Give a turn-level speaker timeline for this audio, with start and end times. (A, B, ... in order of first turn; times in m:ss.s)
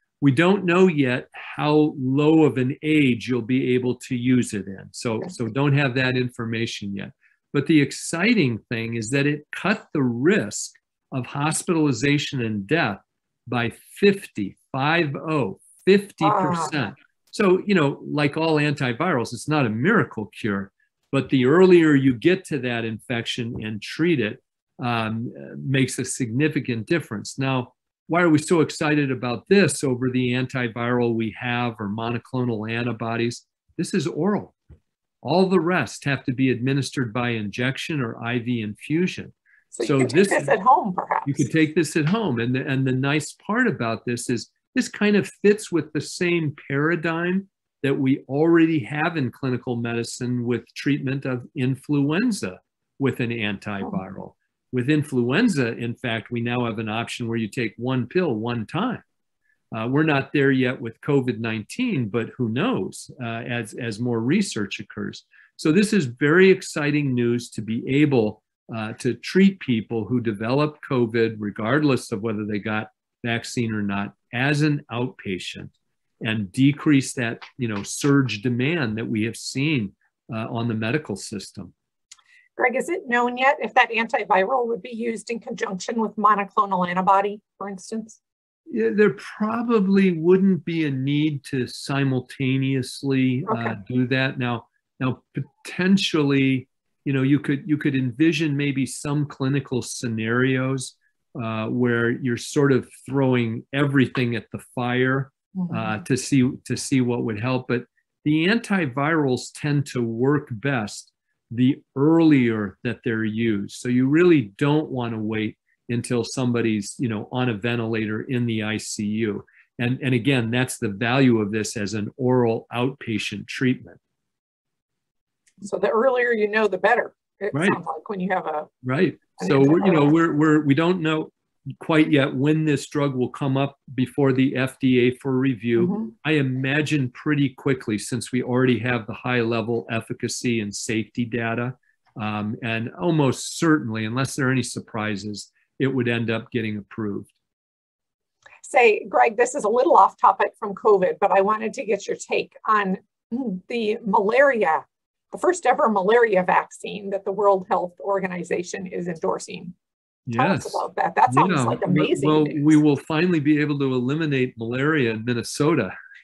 0:00.2-0:34.6 A
0:16.2-0:16.8 B
0:35.2-0:40.5 A
0:39.7-0:41.5 B
0:41.2-0:59.0 A
0:59.7-1:21.7 A
1:22.6-1:28.2 B
1:28.7-2:04.0 A
1:33.5-1:33.8 B
2:05.6-2:08.7 B
2:07.5-2:07.8 A
2:08.8-2:27.3 A
2:09.4-2:10.1 B
2:15.8-2:16.1 B
2:28.6-2:39.7 B
2:40.3-2:45.9 A
2:40.3-2:42.8 B